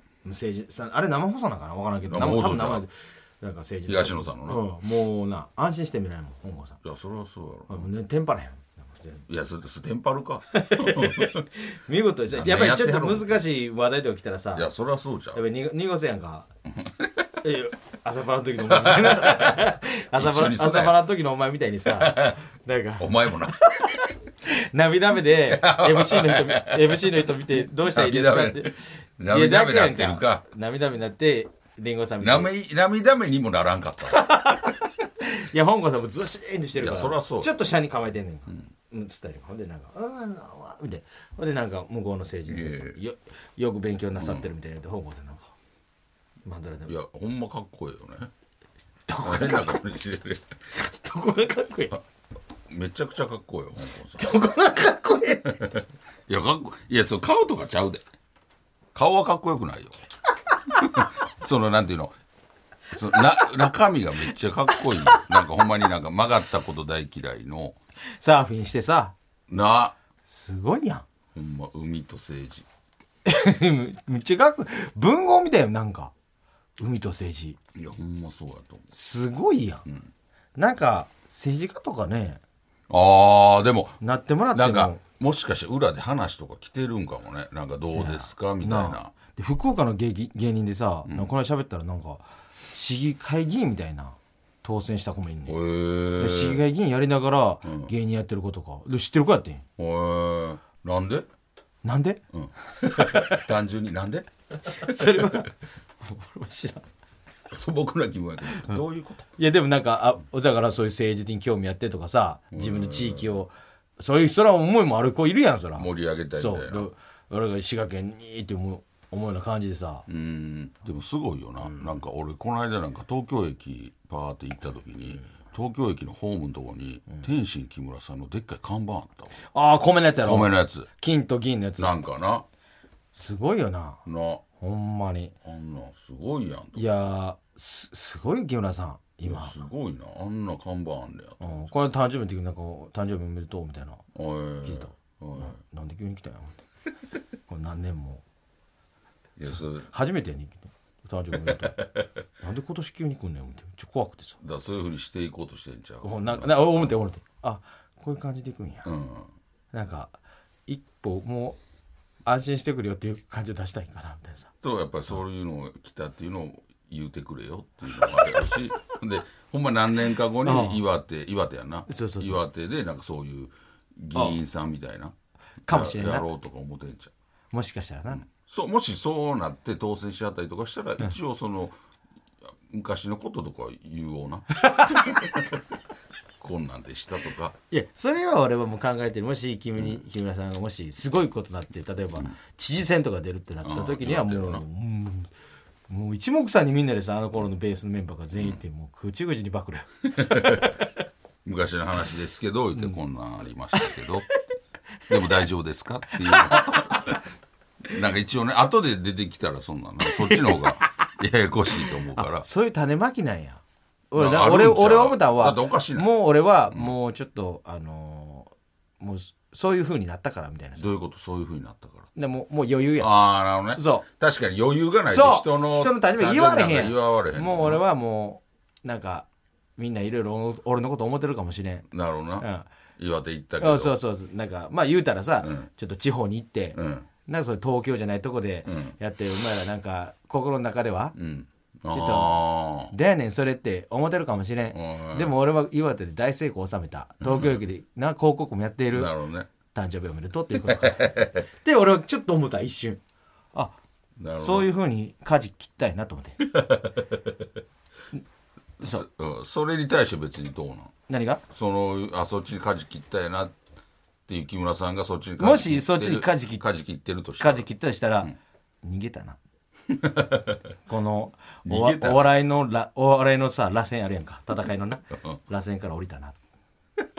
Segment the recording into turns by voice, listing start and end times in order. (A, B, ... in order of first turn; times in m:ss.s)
0:00.2-0:06.8 A
0:02.1-0:02.8 B
0:03.9-0:04.6 B
0:06.8-0:07.9 B
0:07.7-0:09.2 A
0:09.3-0:11.5 B
0:10.5-0:14.7 A
0:12.3-0:13.4 B
0:14.5-0:15.4 B
0:15.3-0:16.5 A
0:16.8-0:17.1 B
0:17.4-0:32.5 A
0:18.7-0:21.1 B
0:21.9-0:22.4 B
0:23.0-0:23.6 B
0:25.5-0:30.4 B
0:32.2-0:34.4 B
0:34.1-0:45.5 A
0:36.8-0:37.5 B
0:42.5-0:43.0 B
0:44.2-0:44.5 B
0:46.4-0:46.9 A
0:46.9-0:48.3 B
0:49.1-0:49.8 A
0:49.2-0:50.5 B
0:50.8-0:52.0 A
0:52.7-0:54.3 B
0:54.2-0:55.7 A
0:55.6-0:58.0 B
0:58.9-1:00.0 B
1:00.8-1:02.2 B
1:02.9-1:07.8 B
1:05.1-1:05.3 A
1:08.2-1:09.2 A
1:09.5-1:10.0 B
1:10.3-1:11.1 A
1:11.3-1:12.7 B
1:13.2-1:16.1 A
1:16.8-1:17.6 A
1:17.8-1:18.9 B
1:18.9-1:19.9 A
1:19.9-1:20.1 B
1:20.6-1:22.4 A
1:22.9-1:24.0 B
1:24.0-1:25.0 A
1:24.5-1:29.1 B
1:27.8-1:35.6 A
1:31.1-1:31.3 B
1:35.5-1:36.6 B
1:36.2-1:39.6 A
1:37.6-1:37.9 B
1:39.8-1:41.3 B
1:41.8-1:42.2 A
1:42.3-1:45.4 B
1:42.9-1:43.4 A
1:44.7-1:46.9 A
1:47.5-1:49.3 B
1:49.4-2:00.1 A
1:52.5-1:53.4 B
1:55.8-1:56.9 B
2:00.1-2:09.4 B
2:09.5-2:11.9 A
2:10.2-2:10.9 B
2:11.8-2:12.4 B
2:13.1-2:14.0 A
2:14.1-2:14.4 B
2:14.6-2:15.3 A
2:15.4-2:16.8 B
2:16.8-2:19.6 A
2:19.3-2:21.8 B
2:21.4-2:24.0 A
2:24.2-2:25.6 B
2:24.6-2:26.7 A
2:27.5-2:28.2 A
2:29.4-2:29.9 B
2:29.5-2:31.8 A
2:31.4-2:32.1 B
2:32.4-2:34.4 A
2:34.4-2:37.0 B
2:36.0-2:38.9 A
2:38.8-2:39.3 B
2:39.7-2:41.6 A
2:42.2-2:44.5 A
2:44.6-2:55.1 B
2:50.4-2:50.8 A
2:51.9-2:52.4 A
2:54.1-2:54.4 A
2:55.7-2:56.3 A
2:55.7-2:57.1 B
2:57.5-2:58.2 A
2:58.1-3:01.8 B
3:02.7-3:05.6 B
3:06.4-3:07.6 B
3:07.7-3:15.3 A
3:13.6-3:14.6 B
3:15.9-3:20.8 A
3:20.2-3:20.8 B
3:21.4-3:24.3 B
3:23.8-3:24.0 A
3:25.1-3:27.2 B
3:26.2-3:27.0 A
3:27.9-3:32.5 B
3:30.1-3:31.1 A
3:32.2-3:40.9 A
3:34.1-3:36.1 B
3:40.8-3:42.1 B
3:42.2-3:44.0 A
3:43.0-3:47.8 B
3:45.1-3:49.3 A
3:49.8-3:51.9 A
3:51.9-3:52.5 B
3:52.4-3:52.7 A
3:53.0-3:54.0 B
3:53.6-4:01.2 A
3:55.4-3:55.7 B
3:56.8-3:57.1 B
3:58.6-3:59.0 B
4:01.2-4:02.9 B
4:01.9-4:13.0 A
4:04.7-4:05.4 B
4:07.2-4:07.5 B
4:08.9-4:09.5 B
4:10.7-4:11.4 B
4:14.2-4:14.7 B
4:14.4-4:16.5 A
4:16.4-4:17.3 B
4:18.8-4:21.0 B
4:21.1-4:21.4 A
4:21.5-4:23.6 B
4:24.3-4:27.7 B
4:25.4-4:26.6 A
4:27.4-4:29.4 A
4:29.9-4:30.6 B
4:30.9-4:36.4 A
4:31.7-4:32.3 B